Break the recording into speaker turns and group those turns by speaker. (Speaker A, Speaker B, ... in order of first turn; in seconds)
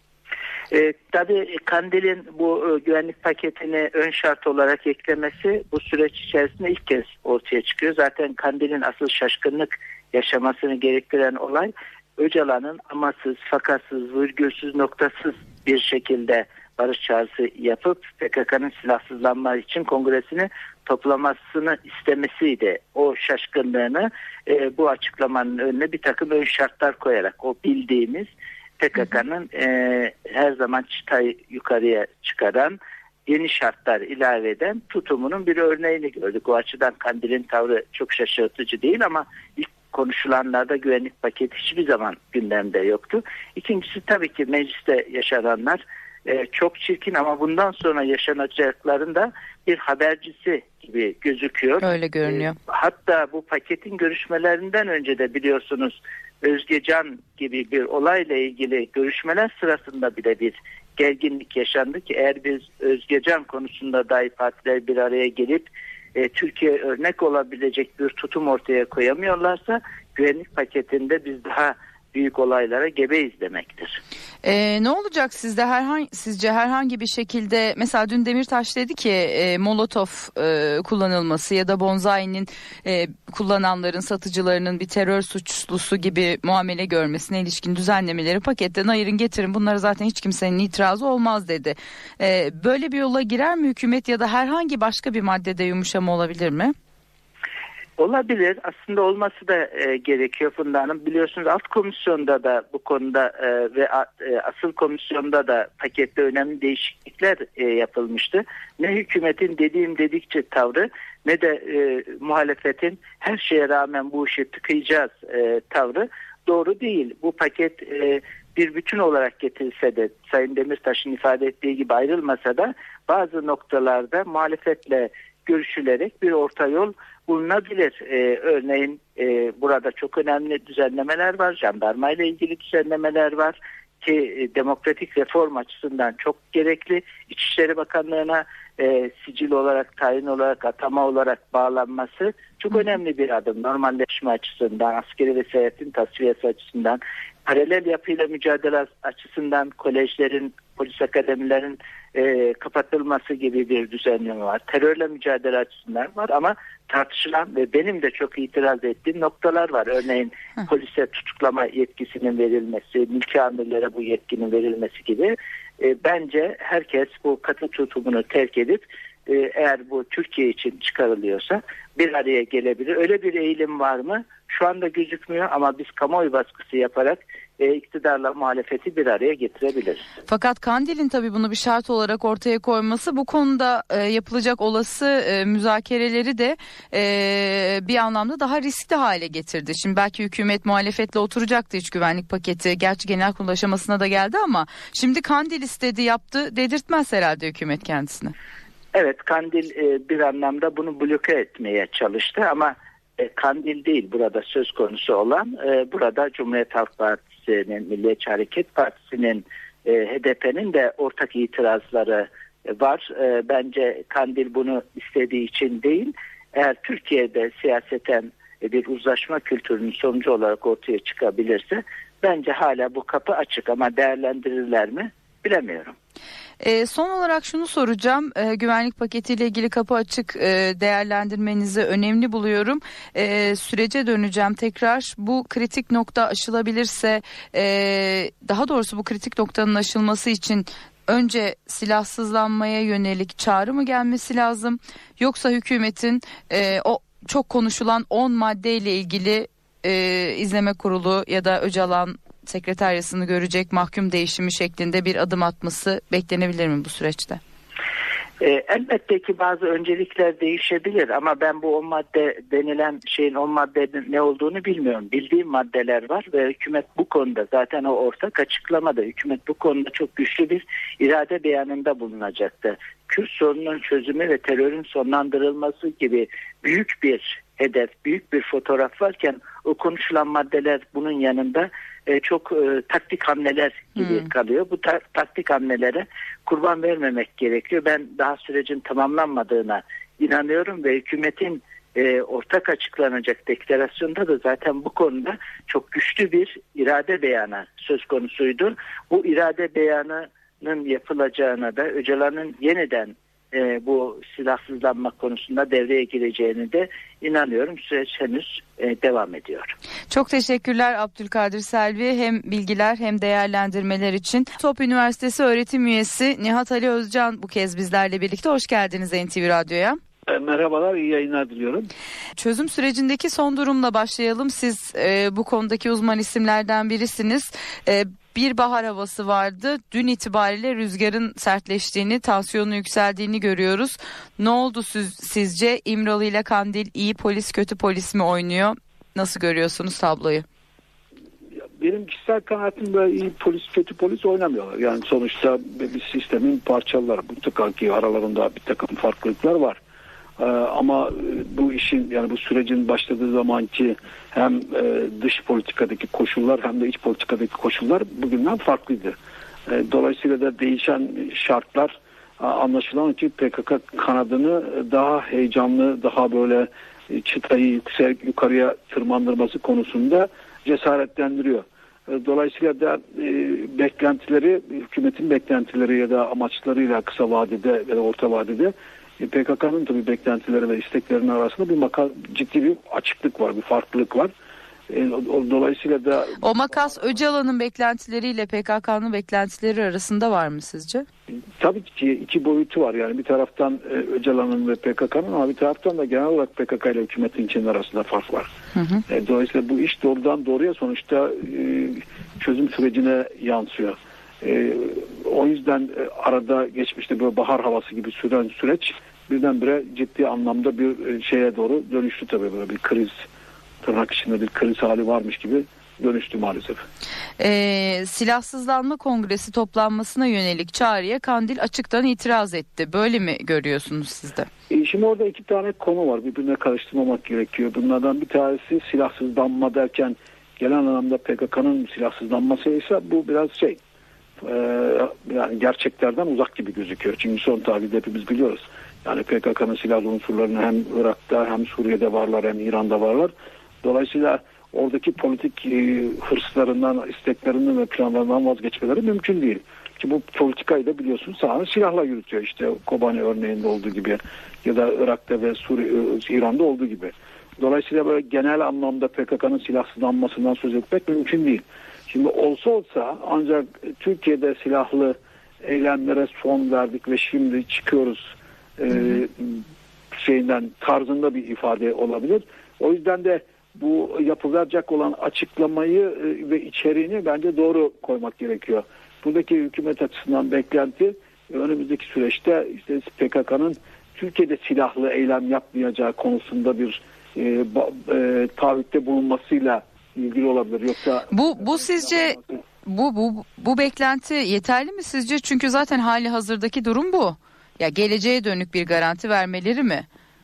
Speaker A: 0.7-74.0, 98.0-180.1, 198.9-225.9, 258.4-309.7
Speaker B: 51.8-52.5, 74.4-96.7, 180.3-198.3, 226.6-257.4, 310.1-320.0, 322.4-340.4, 386.4-391.0, 398.7-399.0, 417.4-424.5, 491.3-500.1
Speaker C: 320.3-321.9, 341.8-349.8, 350.4-359.1, 359.7-384.3, 384.9-387.0, 391.6-398.5, 399.1-413.2, 413.8-416.8, 424.7-433.8, 434.4-492.6